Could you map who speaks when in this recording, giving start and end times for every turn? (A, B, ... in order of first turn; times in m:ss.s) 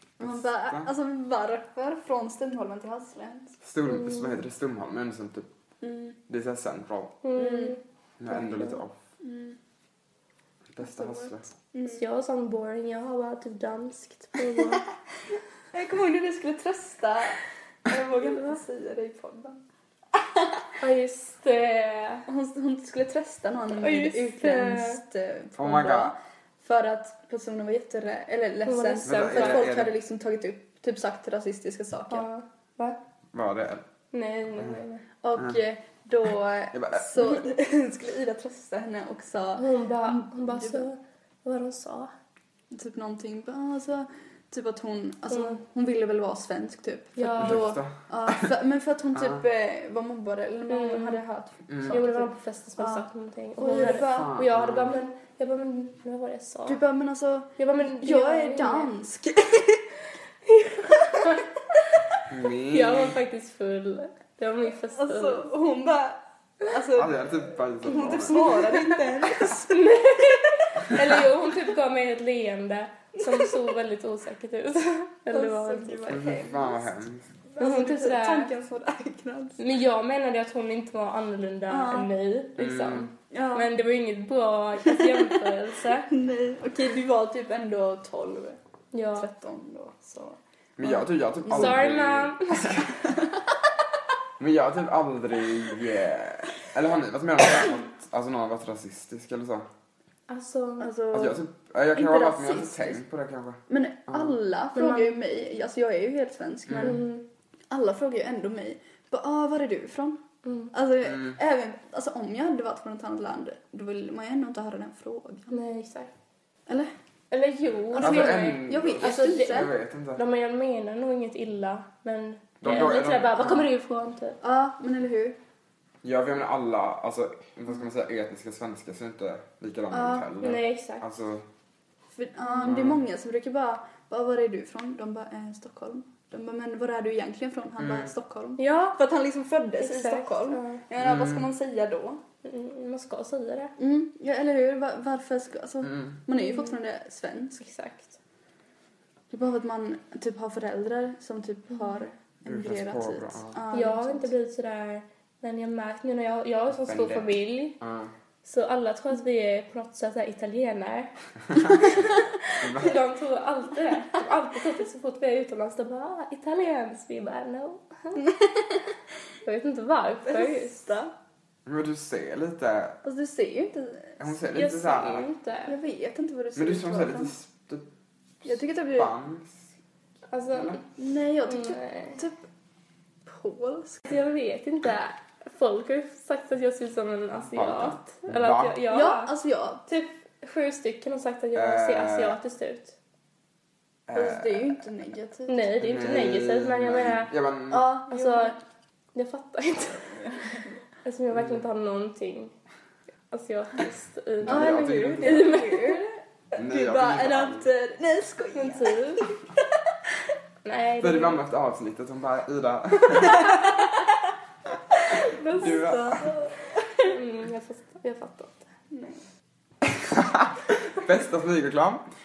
0:00.2-0:00.9 A
0:00.2-0:03.6 B
0:03.6-0:05.5 A
0:03.9-0:04.3 C
0:05.8-0:06.2 B
0:06.3-0:07.2 A
0:07.2-0:08.8 C
0:07.4-0:07.8 B
0:08.2-0:09.0 A
0:09.2-0:09.6 B
0:10.7-0:11.5 A
0:10.8-0:12.0 B
0:11.8-0:14.8 C
0:15.7-0:19.6 B
0:18.2-0:18.6 C
0:20.1-0:20.6 B
0:20.8-0:22.2 C
0:22.3-0:32.3 B
0:23.7-0:25.0 C
0:25.6-0:26.1 A
0:28.6-0:29.7 C
0:29.0-0:29.9 A
0:32.1-0:33.0 C
0:33.3-0:33.8 A
0:34.1-0:35.0 C
0:35.2-0:40.8 B
0:36.7-0:37.4 A
0:39.6-0:42.1 C
0:42.7-0:53.0 B
0:45.3-0:45.6 C
0:47.2-0:47.8 C
0:47.4-0:47.9 A
0:49.1-0:49.4 A
0:50.7-0:51.2 C
0:51.7-0:52.0 A
0:51.9-0:56.8 C
0:53.6-0:54.4 B
0:53.8-0:54.9 A
0:56.7-0:59.8 B
0:57.6-0:58.9 C
1:00.4-1:01.5 C
1:02.3-1:03.2 A
1:02.7-1:05.5 C
1:04.9-1:07.3 B
1:06.9-1:08.5 A
1:07.8-1:09.9 B
1:08.3-1:16.2 C
1:15.3-1:16.9 B
1:16.0-1:17.3 A
1:17.5-1:19.6 B
1:17.6-1:18.5 C
1:19.6-1:26.1 C
1:21.7-1:22.1 B
1:22.6-1:23.1 A
1:23.3-1:23.7 B
1:24.8-1:25.5 B
1:26.1-1:28.6 B
1:28.9-1:29.3 C
1:29.1-1:31.8 B
1:30.8-1:32.9 A
1:31.5-1:32.8 C
1:34.4-1:39.7 A
1:40.3-1:40.9 C
1:40.8-1:41.4 B
1:41.1-1:44.3 A
1:41.9-1:43.0 B
1:43.7-1:47.1 B
1:44.7-1:45.2 C
1:46.7-1:47.0 A
1:46.8-1:47.2 C
1:47.7-1:50.2 B
1:50.4-1:50.7 C
1:50.7-1:55.5 B
1:51.0-1:51.4 A
1:55.5-1:56.1 C
1:56.7-1:56.9 B
1:57.3-2:04.4 C
1:57.9-1:59.7 B
1:58.0-2:00.2 A
2:02.6-2:03.6 A
2:04.4-2:05.4 B
2:06.0-2:11.4 A
2:09.9-2:10.3 B
2:10.4-2:11.0 C
2:12.1-2:22.2 B
2:12.6-2:13.0 A
2:17.8-2:18.1 A
2:18.6-2:19.0 C
2:19.8-2:20.8 C
2:21.0-2:21.5 A
2:22.4-2:23.7 C
2:23.8-2:27.6 B
2:25.8-2:26.2 A
2:27.6-2:28.1 C
2:29.3-2:34.3 B
2:32.4-2:33.6 A
2:33.7-2:37.8 C
2:36.8-2:37.3 A
2:37.8-2:38.1 A
2:38.4-2:48.2 C
2:42.6-2:43.0 A
2:48.2-2:48.8 B
2:49.4-2:50.9 C
2:50.3-2:51.1 B
2:51.6-2:53.0 A
2:53.0-2:54.2 B
2:54.2-2:55.3 A
2:54.5-2:55.7 C
2:55.7-2:57.3 B
2:56.6-2:57.9 A
2:58.4-2:59.6 A
2:58.4-2:59.1 B
3:00.3-3:00.8 C
3:00.9-3:02.4 B
3:01.5-3:02.2 C
3:03.2-3:04.0 B
3:04.1-3:09.3 C
3:07.4-3:08.8 A
3:08.9-3:09.8 B
3:09.9-3:13.0 C
3:11.5-3:12.4 A
3:14.1-3:14.8 A
3:14.1-3:15.8 B
3:15.5-3:17.3 C
3:15.8-3:17.9 A
3:17.7-3:18.5 B
3:18.1-3:18.6 C
3:19.1-3:20.2 C
3:21.0-3:22.5 C
3:23.3-3:26.0 C
3:24.4-3:25.5 A
3:24.4-3:29.6 B
3:26.6-3:27.7 A
3:28.5-3:29.2 C
3:30.6-3:31.4 C
3:31.0-3:33.7 A
3:34.9-3:37.1 B
3:35.6-3:36.2 A
3:37.0-3:38.6 C
3:38.9-3:39.2 B
3:40.1-3:42.0 A